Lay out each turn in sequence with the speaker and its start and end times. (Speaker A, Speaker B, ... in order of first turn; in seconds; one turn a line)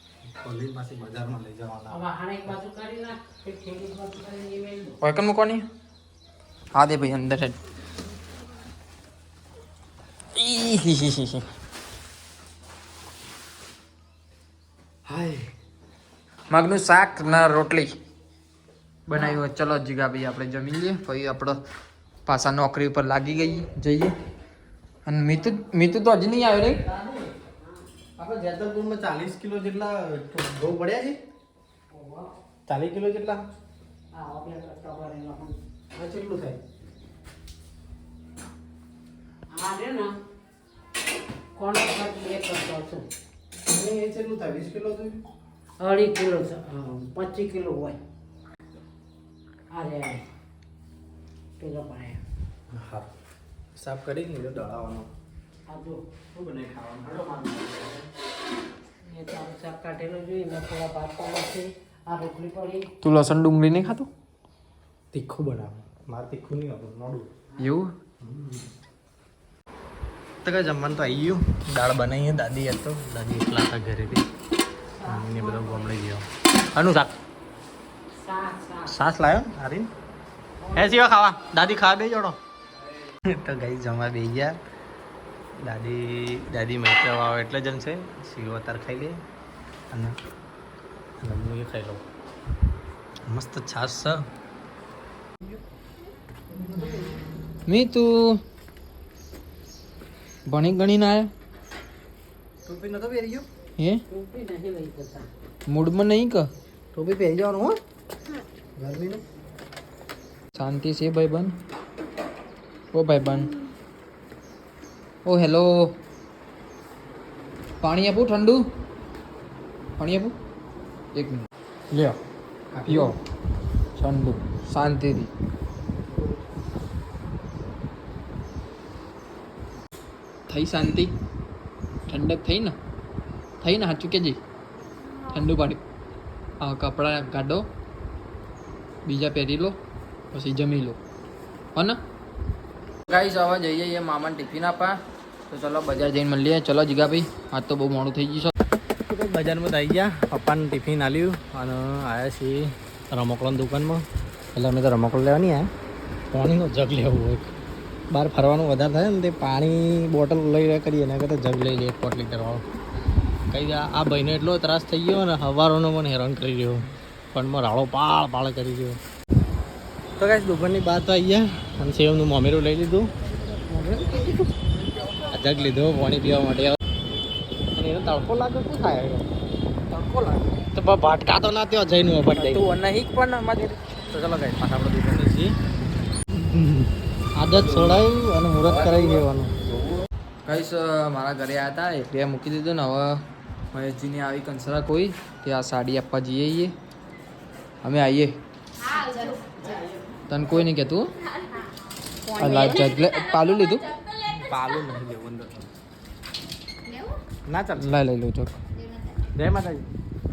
Speaker A: 0.3-2.1
Speaker B: 1.9-5.0
Speaker C: 5.0-5.7
Speaker C: 6.8-7.6
Speaker C: 10.3-11.5
Speaker A: 15.1-15.5
Speaker C: 16.5-17.9
Speaker C: 19.1-21.6
Speaker C: 22.3-24.1
Speaker C: 25.1-26.8
Speaker A: 26.8-27.3
Speaker B: 27.6-27.9
Speaker A: 28.2-31.2
Speaker B: 31.9-32.3
Speaker A: 32.7-33.4
Speaker B: 34.1-35.5
Speaker A: 35.9-36.6
Speaker B: 39.5-40.1
Speaker B: 41.6-43.1
Speaker A: 43.7-45.2
Speaker B: 45.8-48.0
Speaker B: 49.7-50.2
Speaker B: 51.6-52.2
Speaker A: 52.7-53.1
Speaker A: 53.8-55.1
Speaker B: 55.7-56.0
Speaker A: 56.3-58.1
Speaker B: 59.0-62.9
Speaker C: 63.0-64.1
Speaker A: 65.1-67.3
Speaker C: 67.6-67.9
Speaker A: 68.2-68.7
Speaker A: 70.4-74.3
Speaker B: 75.0-75.9
Speaker A: 75.0-77.1
Speaker B: 78.2-79.0
Speaker A: 78.9-79.9
Speaker B: 80.6-80.9
Speaker A: 80.7-82.4
Speaker A: 83.3-84.6
Speaker A: 85.6-89.2
Speaker A: 89.9-90.2
Speaker A: 91.2-92.0
Speaker A: 93.3-94.2
Speaker B: 96.7-97.2
Speaker C: 97.7-98.4
Speaker C: 100.5-101.3
Speaker A: 102.7-103.5
Speaker B: 104.1-105.3
Speaker C: 105.7-106.5
Speaker A: 106.9-107.8
Speaker A: 108.8-109.2
Speaker C: 110.6-111.5
Speaker C: 112.9-113.6
Speaker C: 115.2-116.0
Speaker C: 117.8-118.6
Speaker C: 120.0-120.3
Speaker C: 121.2-122.2
Speaker A: 122.7-123.1
Speaker C: 122.9-123.2
Speaker C: 124.0-125.3
Speaker C: 130.5-131.1
Speaker C: 132.1-132.8
Speaker C: 133.6-134.4
Speaker C: 135.3-135.8
Speaker C: 136.6-137.7
Speaker C: 139.1-139.8
Speaker C: 140.3-141.0
Speaker C: 143.1-145.0
Speaker C: 145.5-148.5
Speaker A: 149.0-155.7
Speaker A: 156.3-157.5
Speaker A: 158.1-162.6
Speaker A: 163.5-169.0
Speaker A: 170.2-173.1
Speaker C: 173.7-174.2
Speaker A: 174.0-174.4
Speaker A: 175.3-176.8
Speaker A: 177.8-179.3
Speaker C: 179.9-180.6
Speaker A: 180.8-182.7
Speaker C: 182.3-183.8
Speaker A: 184.1-185.6
Speaker A: 186.3-189.5
Speaker C: 190.5-193.2
Speaker C: 193.7-196.7
Speaker C: 197.8-198.3
Speaker C: 200.3-201.1
Speaker C: 202.4-203.9
Speaker A: 204.2-205.7
Speaker A: 207.5-208.1
Speaker C: 207.8-208.6
Speaker A: 209.3-209.9